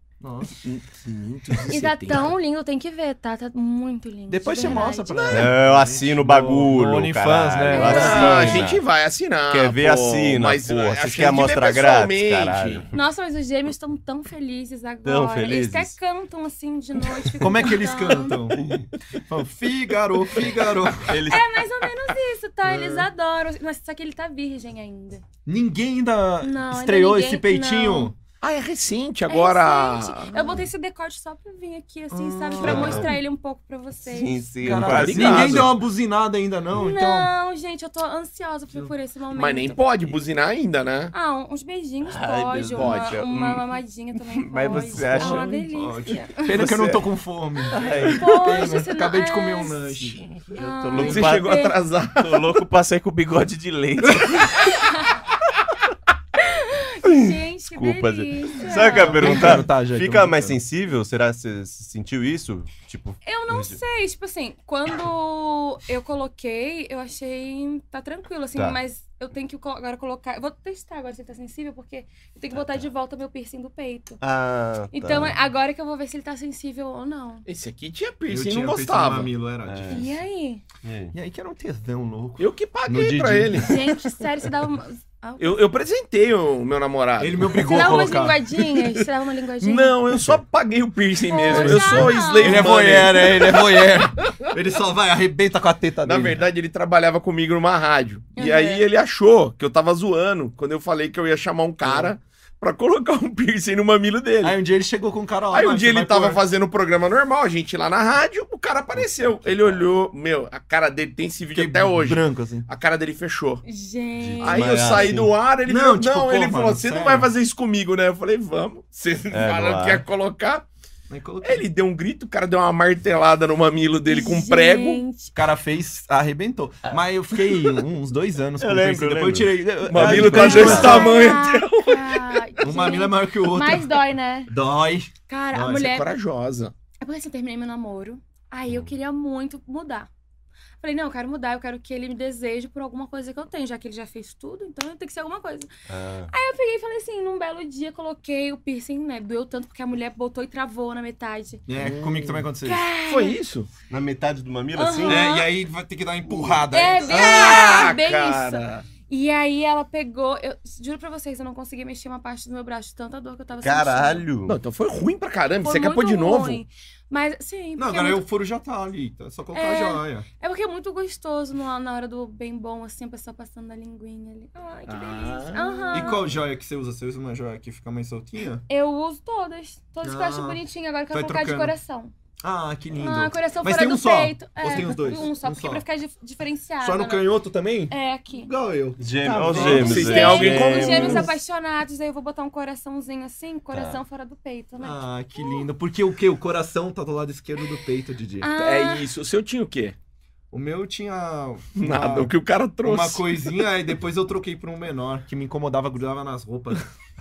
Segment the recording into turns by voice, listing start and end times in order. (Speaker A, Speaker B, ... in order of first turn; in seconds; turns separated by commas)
Speaker A: 0.2-0.6, Speaker B: 0.6-2.3, Speaker C: 1.7-5.5, Speaker A: 4.3-8.6, Speaker D: 5.3-8.8, Speaker C: 7.7-8.6, Speaker B: 7.8-12.9, Speaker D: 9.5-12.9, Speaker C: 12.9-18.5, Speaker D: 15.1-15.9, Speaker A: 17.4-18.7, Speaker D: 18.6-18.9, Speaker A: 19.3-21.2, Speaker D: 21.1-21.5, Speaker C: 21.3-25.2, Speaker A: 22.6-23.1, Speaker A: 25.5-28.2, Speaker C: 26.4-28.1, Speaker B: 28.4-30.6, Speaker C: 29.3-34.5, Speaker A: 32.1-33.1, Speaker D: 32.6-33.1, Speaker D: 34.1-35.7, Speaker A: 34.6-37.3, Speaker B: 34.7-35.8, Speaker C: 36.8-39.8, Speaker B: 39.4-41.1, Speaker C: 41.1-46.6, Speaker D: 42.0-43.7, Speaker B: 42.8-43.1, Speaker D: 44.2-45.5, Speaker A: 44.7-50.2, Speaker D: 46.5-47.0, Speaker D: 47.7-48.4, Speaker C: 48.1-50.0, Speaker D: 50.1-51.5, Speaker C: 50.5-51.8, Speaker B: 51.0-52.4, Speaker D: 52.2-54.8, Speaker C: 54.6-55.2, Speaker C: 56.4-59.6, Speaker D: 57.0-63.8, Speaker A: 58.8-60.6, Speaker C: 63.2-74.2, Speaker D: 72.5-72.8, Speaker D: 74.2-75.4, Speaker C: 74.9-77.5, Speaker B: 77.5-79.3, Speaker A: 78.3-80.1, Speaker D: 79.7-80.2, Speaker C: 79.9-80.6, Speaker D: 80.8-81.1, Speaker A: 81.1-83.8, Speaker B: 82.4-83.8, Speaker C: 83.6-85.6, Speaker B: 85.4-87.8, Speaker A: 87.2-88.4, Speaker C: 87.6-90.0, Speaker B: 89.6-94.3, Speaker C: 91.3-92.8, Speaker A: 91.5-96.5, Speaker B: 96.0-104.6, Speaker C: 98.4-98.8, Speaker A: 101.8-102.1, Speaker A: 104.4-106.4, Speaker B: 105.5-113.6, Speaker D: 109.0-109.9, Speaker A: 111.5-112.7, Speaker C: 113.7-115.1, Speaker D: 114.2-115.3, Speaker B: 114.4-120.7, Speaker A: 115.7-117.3, Speaker D: 119.3-120.0, Speaker A: 121.1-121.7, Speaker B: 121.4-125.0, Speaker C: 124.1-125.3, Speaker A: 125.3-131.3, Speaker D: 128.6-131.2, Speaker B: 129.9-132.5, Speaker C: 130.4-134.5, Speaker A: 132.6-135.8, Speaker C: 135.3-136.1, Speaker B: 135.7-136.7, Speaker C: 137.0-140.1, Speaker C: 140.8-145.7, Speaker D: 145.9-146.3, Speaker C: 146.3-151.6, Speaker A: 151.7-152.9, Speaker B: 151.8-152.5, Speaker C: 152.6-153.4, Speaker B: 153.0-153.7, Speaker D: 153.9-155.3, Speaker C: 154.8-155.5, Speaker A: 155.1-157.4, Speaker C: 156.7-164.2, Speaker B: 157.1-158.9, Speaker D: 163.6-164.6, Speaker B: 164.5-166.6, Speaker C: 165.6-168.2, Speaker A: 167.8-170.3, Speaker C: 169.5-176.3, Speaker B: 174.9-176.2, Speaker A: 175.9-178.7, Speaker C: 178.7-182.1, Speaker A: 180.0-181.8, Speaker A: 182.4-185.8, Speaker C: 183.0-187.3, Speaker A: 186.8-190.2, Speaker C: 187.9-188.5, Speaker D: 189.0-191.3, Speaker B: 189.3-191.3, Speaker C: 189.5-195.7, Speaker D: 193.7-194.0, Speaker A: 194.8-198.5, Speaker C: 198.4-199.1, Speaker B: 198.6-200.0, Speaker A: 200.5-202.3, Speaker B: 201.8-203.2, Speaker A: 202.8-206.9